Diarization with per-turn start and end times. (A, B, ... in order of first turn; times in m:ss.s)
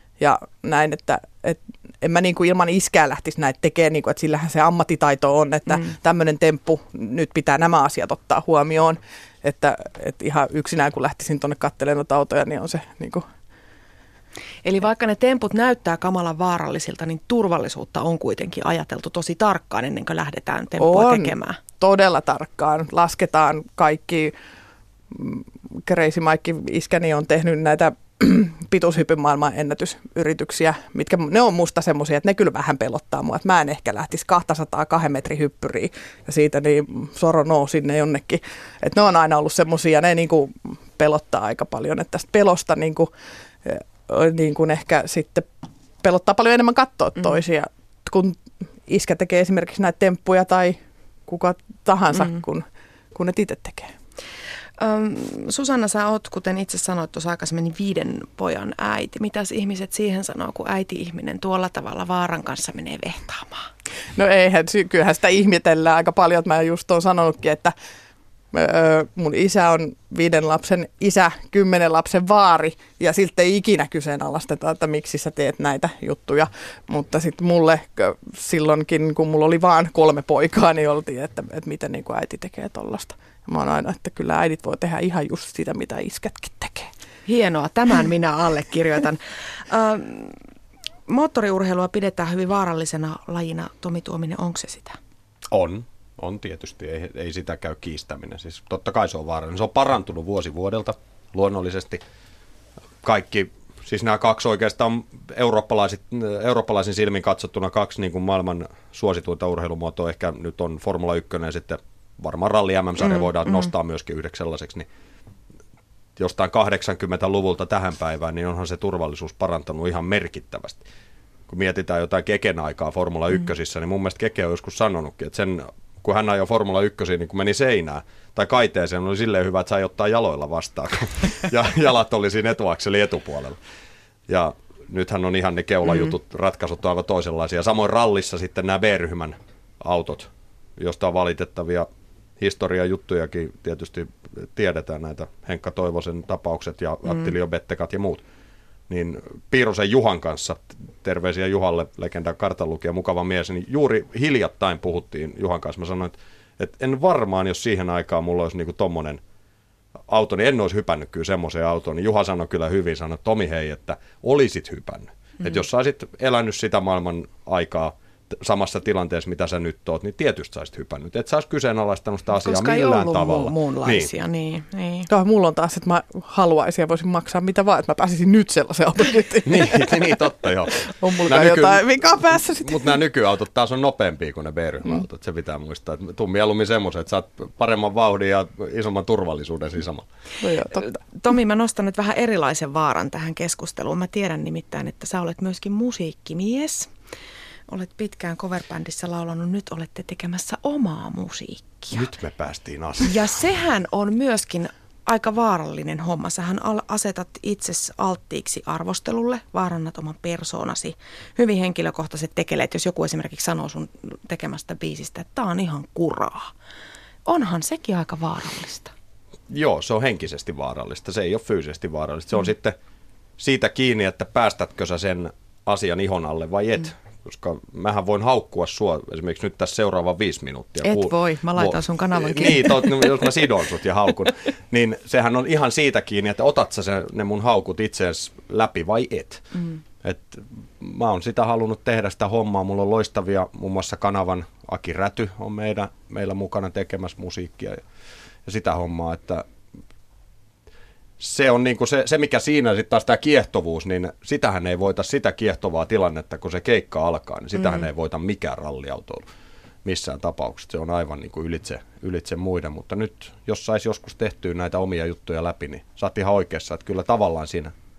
0:00.2-0:13.3 A
0:14.6-0:21.6 B
0:20.8-0:24.3 A
0:25.1-0:43.1 A
0:43.6-0:45.5 A
0:46.0-0:53.9 A
0:54.8-1:03.7 B
1:04.2-1:07.7 A
1:08.5-1:26.9 A
1:27.3-1:30.4 B
1:31.1-1:35.0 B
1:35.5-1:42.0 C
1:43.0-1:54.9 C
1:56.2-2:00.8 C
2:01.5-2:13.6 C
2:14.3-2:21.9 C
2:22.4-2:28.2 C
2:28.9-2:39.2 C
2:40.1-2:54.1 C
2:52.4-2:55.1 B
2:55.1-3:00.2 A
2:59.5-3:10.1 C
3:00.8-3:03.0 A
3:10.4-3:11.0 A
3:10.8-3:16.9 B
3:17.7-3:22.0 B
3:21.9-3:23.4 C
3:23.0-3:36.5 B
3:37.3-3:38.9 B
3:39.5-3:42.8 C
3:43.4-3:59.4 C
3:50.8-3:53.3 B
4:00.0-4:07.8 C
4:08.4-4:09.5 C
4:11.2-4:19.2 C
4:19.8-4:27.7 C